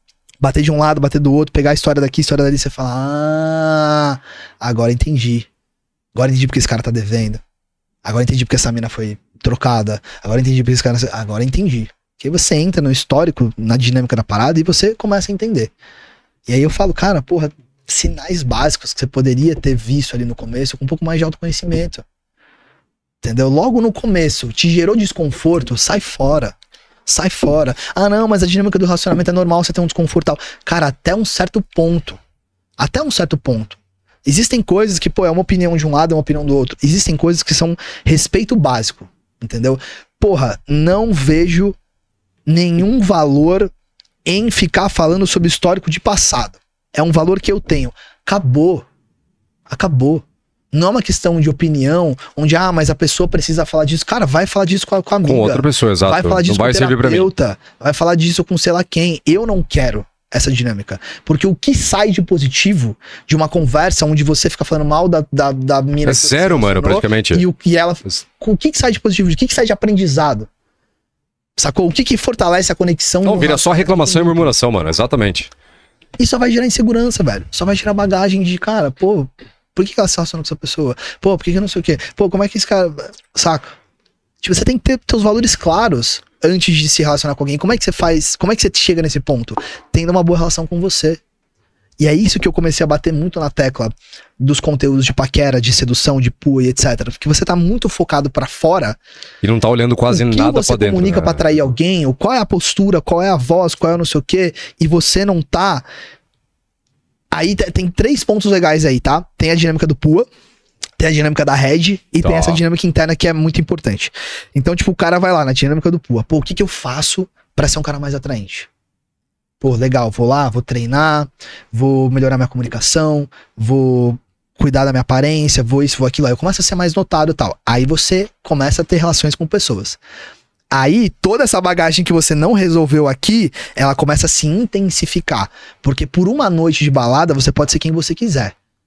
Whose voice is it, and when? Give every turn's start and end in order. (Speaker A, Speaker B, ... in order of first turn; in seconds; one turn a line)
Speaker A: 0.4-5.5
Speaker A: 6.2-7.4
Speaker A: 8.0-15.7
Speaker A: 16.5-22.1
Speaker A: 23.2-26.6
Speaker A: 27.1-32.2
Speaker A: 32.8-41.8
Speaker A: 42.5-43.7
Speaker A: 44.2-48.9
Speaker A: 49.7-70.5
Speaker B: 55.2-57.3
Speaker B: 66.0-67.5
Speaker A: 71.6-74.5
Speaker B: 73.2-75.5
Speaker A: 76.2-83.7
Speaker A: 84.4-91.2
Speaker A: 92.0-99.0
Speaker B: 99.4-101.6
Speaker A: 100.1-105.9
Speaker A: 107.3-110.3
Speaker A: 111.0-118.7
Speaker B: 112.2-112.6
Speaker A: 119.6-130.0
Speaker A: 130.7-138.6